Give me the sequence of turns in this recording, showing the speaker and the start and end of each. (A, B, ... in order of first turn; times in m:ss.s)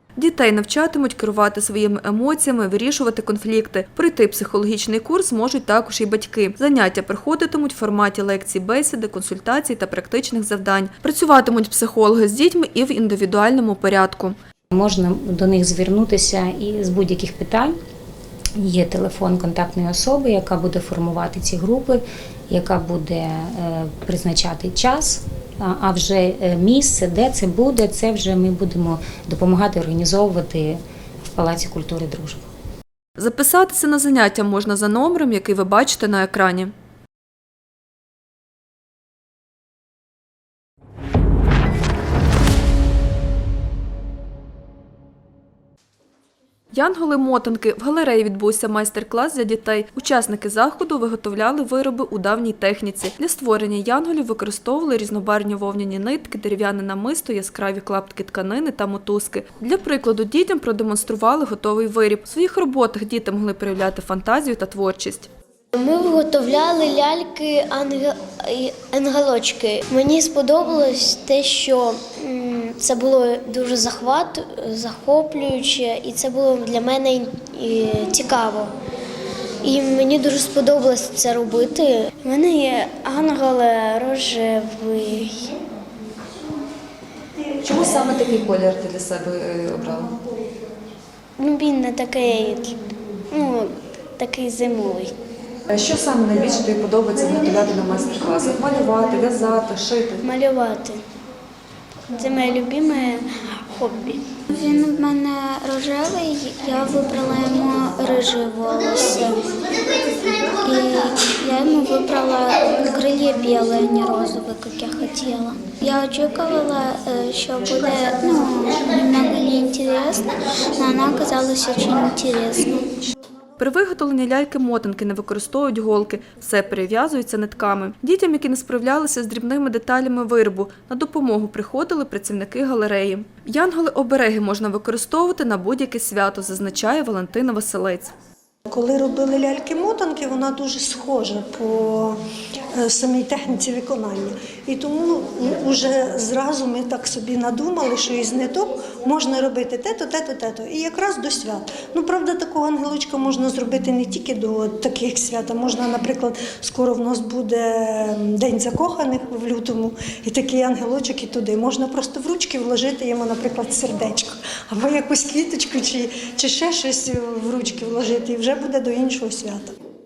0:00.2-0:14.4 A
0:14.7-0:17.7 B
0:18.6-0:30.8 B
0:31.3-0:32.5 B
0:33.2-0:36.7 A
0:46.7-1:05.3 A
1:05.7-1:18.7 C
1:19.6-1:25.5 C
1:27.7-1:30.1 D
1:31.4-1:32.7 C
1:33.3-1:35.1 C
1:35.7-1:40.1 D
1:40.2-1:41.0 C
1:42.2-1:44.3 C
1:44.5-1:49.4 E
1:50.6-2:00.2 E
2:00.8-2:02.7 E
2:03.6-2:18.1 A
2:18.7-2:22.2 F
2:22.8-2:49.7 F